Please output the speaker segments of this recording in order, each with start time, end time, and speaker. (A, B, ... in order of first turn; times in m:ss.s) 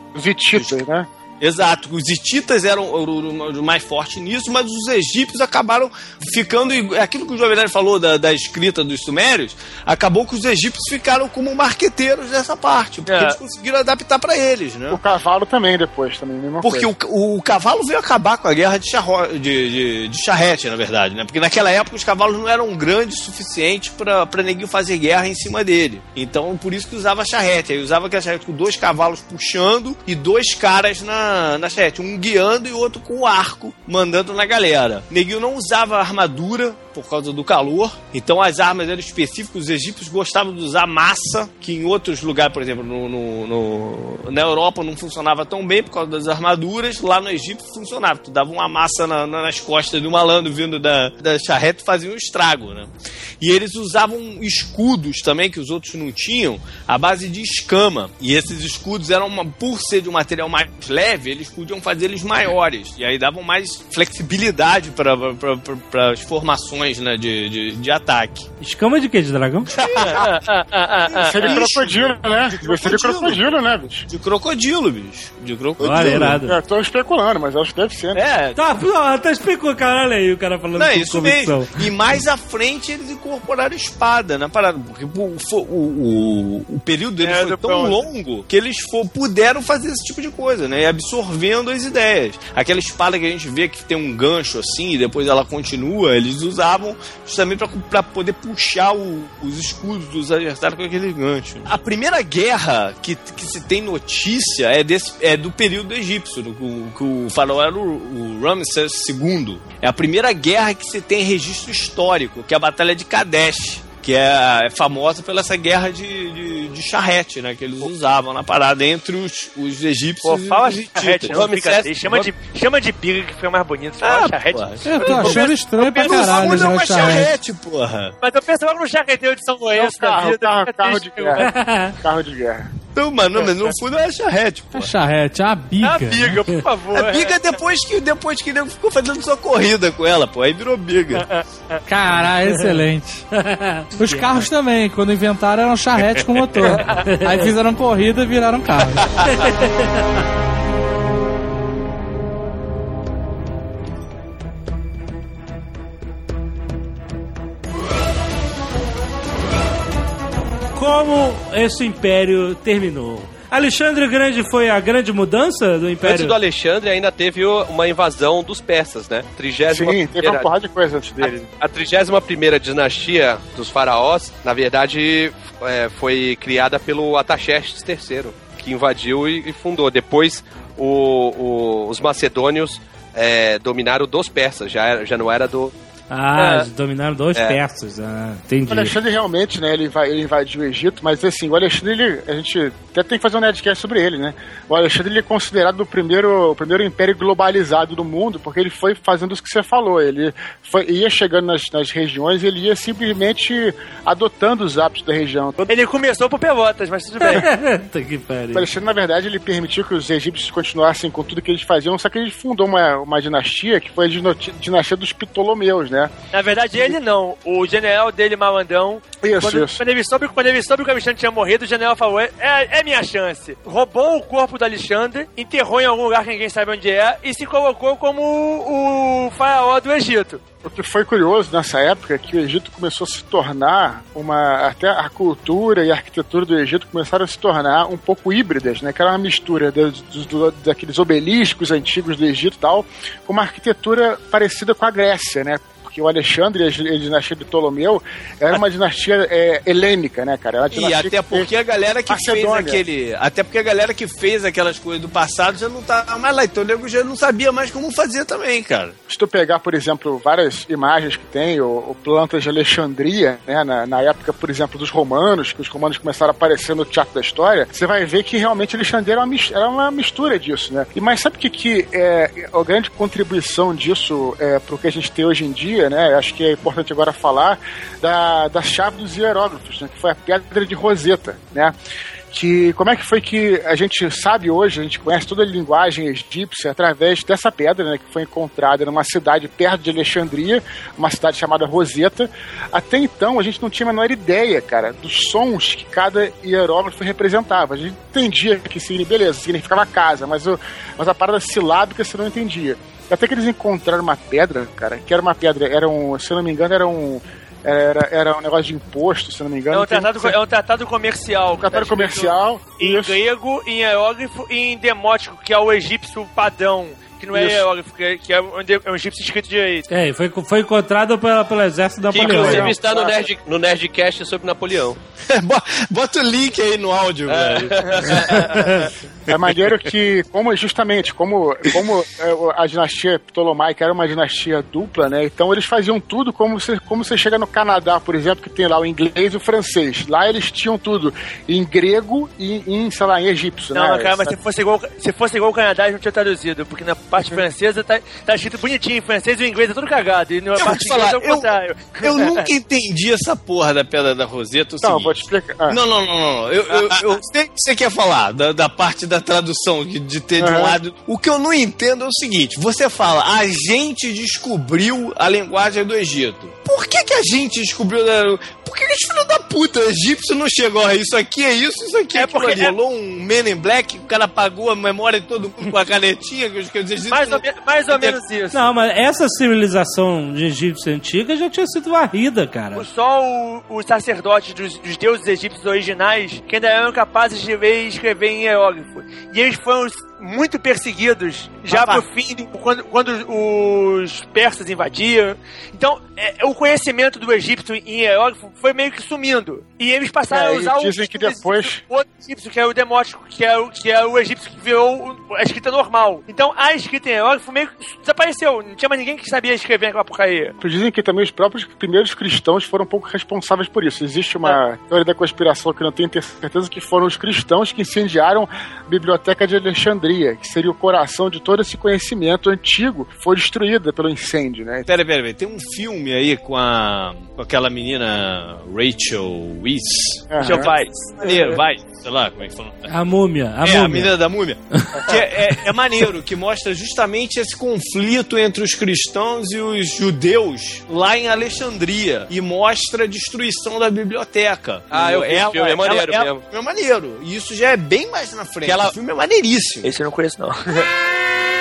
0:00.1-0:01.1 A
0:01.4-0:15.0 B
0:13.0-0:13.4 C
0:14.9-0:16.9 A
0:16.6-1:08.5 B
1:08.6-1:09.7 D
1:09.7-1:10.5 B
1:10.0-1:11.6 C
1:11.2-1:14.0 A
1:11.4-1:13.4 B
1:14.1-1:16.4 B
1:15.8-1:16.6 D
1:16.4-1:18.2 A
1:18.1-1:18.6 C
1:18.6-1:21.9 D
1:20.7-2:01.4 B
1:27.2-1:28.0 C
2:00.2-2:07.3 C
2:01.3-2:02.3 E
2:04.0-2:05.5 B
2:04.8-2:07.3 F
2:06.0-2:08.1 B
2:08.2-2:11.5 C
2:09.7-2:11.4 A
2:11.4-2:11.9 D
2:12.0-2:12.7 A
2:12.9-2:14.9 B
2:13.4-2:13.7 C
2:14.7-2:16.5 F
2:15.8-2:17.4 C
2:16.9-2:21.3 B
2:21.1-2:21.8 C
2:21.9-2:23.3 F
2:22.5-2:22.8 D
2:23.3-2:24.5 D
2:24.0-2:29.1 F
2:26.2-2:27.5 D
2:26.7-2:27.0 C
2:29.2-2:30.2 D
2:40.7-2:46.3 D
2:46.0-2:50.5 E
2:49.7-2:51.4 A
2:51.2-3:05.7 E
3:06.1-3:08.9 D
3:06.4-3:06.6 C
3:08.7-3:25.6 A
3:25.6-3:27.5 C
3:27.2-3:28.7 D
3:28.5-3:36.1 A
3:36.3-3:50.4 C
3:39.2-3:39.8 A
3:50.6-4:11.5 A
4:10.7-4:18.9 B
4:12.1-4:12.8 A
4:19.1-4:41.7 A
4:42.3-5:10.4 A
5:09.7-5:19.8 C
5:11.6-5:13.2 A
5:17.3-5:17.6 A
5:19.9-5:22.7 D
5:22.1-5:25.0 E
5:22.1-5:23.2 A
5:25.3-5:28.6 B
5:27.3-5:28.5 E
5:28.2-5:28.9 D
5:29.3-5:44.4 A
5:43.7-5:52.5 C
5:50.6-6:18.2 B
5:54.8-5:55.8 A
6:00.4-6:00.8 A
6:12.1-6:12.7 C
6:17.1-6:18.6 C
6:18.5-6:22.9 D
6:22.7-6:50.5 C
6:31.7-6:32.0 A
6:40.3-6:41.8 A
6:50.6-7:04.9 A
7:04.9-7:12.9 B
7:10.3-7:10.7 A
7:10.4-7:11.6 C
7:12.8-7:14.1 D
7:13.6-7:29.9 B
7:14.7-7:15.6 D
7:24.9-7:26.4 E
7:28.6-7:29.0 E
7:29.8-7:30.9 C